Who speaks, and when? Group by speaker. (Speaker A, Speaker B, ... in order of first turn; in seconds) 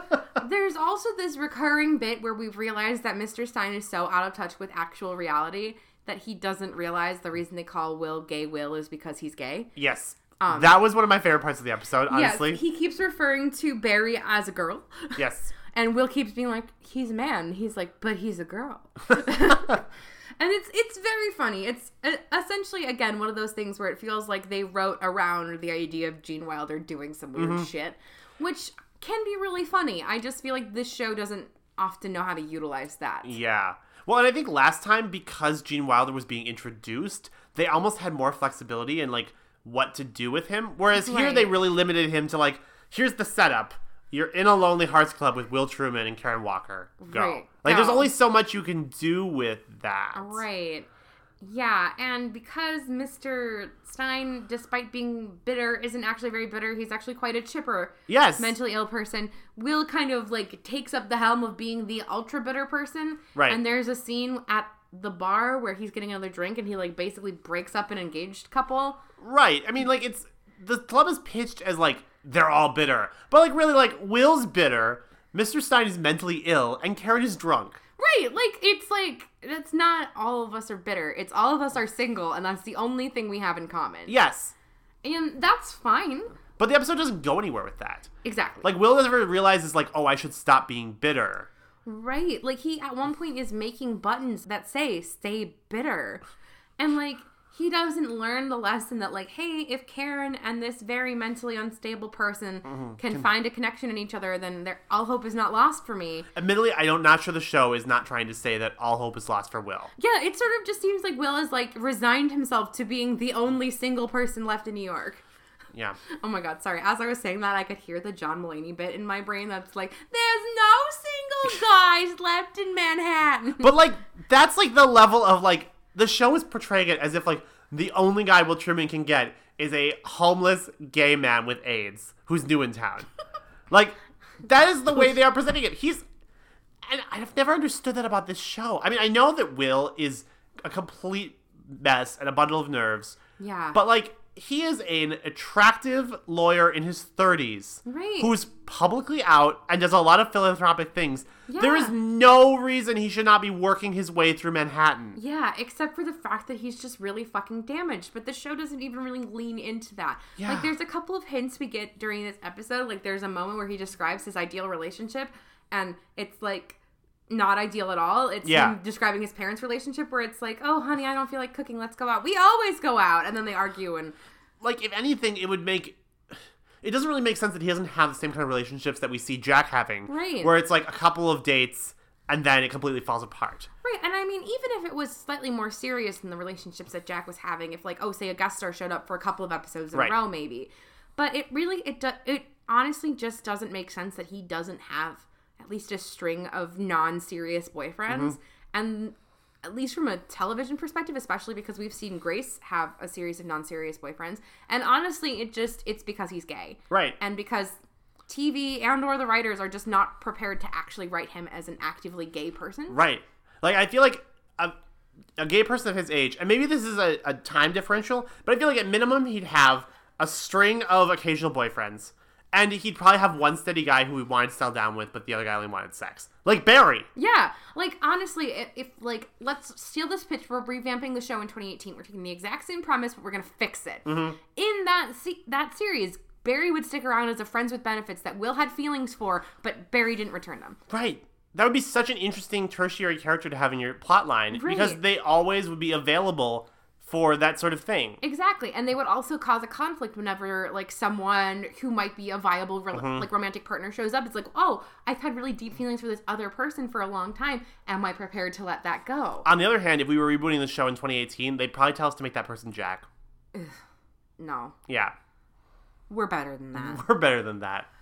Speaker A: 0.4-9.7, 10.4-10.8, 12.1-33.4, 40.9-41.5, 47.0-48.1, 50.1-50.9, 51.4-69.0, 78.0-84.2, 85.0-86.3, 88.2-88.7, 91.8-96.2, 96.8-106.3, 110.0-115.2, 116.0-123.7, 143.4-143.8, 147.9-148.3, 151.5-151.9, 155.2-174.2, 180.1-180.5, 183.8-207.8, 208.3-213.0, 227.2-240.8, 244.5-245.0, 248.2-259.5, 264.4-264.8, 266.1-267.0
Speaker B: 9.8-12.6, 15.2-15.5, 27.4-27.7, 33.2-50.4, 58.1-58.6, 63.4-63.6, 69.2-77.8, 84.1-84.5, 86.6-88.1, 88.6-91.5, 102.7-103.3, 106.3-109.9, 115.7-116.0, 123.6-133.1, 133.7-136.0, 136.8-143.2, 143.7-155.2, 160.4-160.7, 168.4-168.8, 174.6-183.7, 198.1-198.4, 206.9-207.2, 212.9-214.8, 215.4-227.1, 234.1-234.4, 240.9-248.2, 252.9-253.3, 259.4-263.1, 264.9-265.1, 266.7-267.9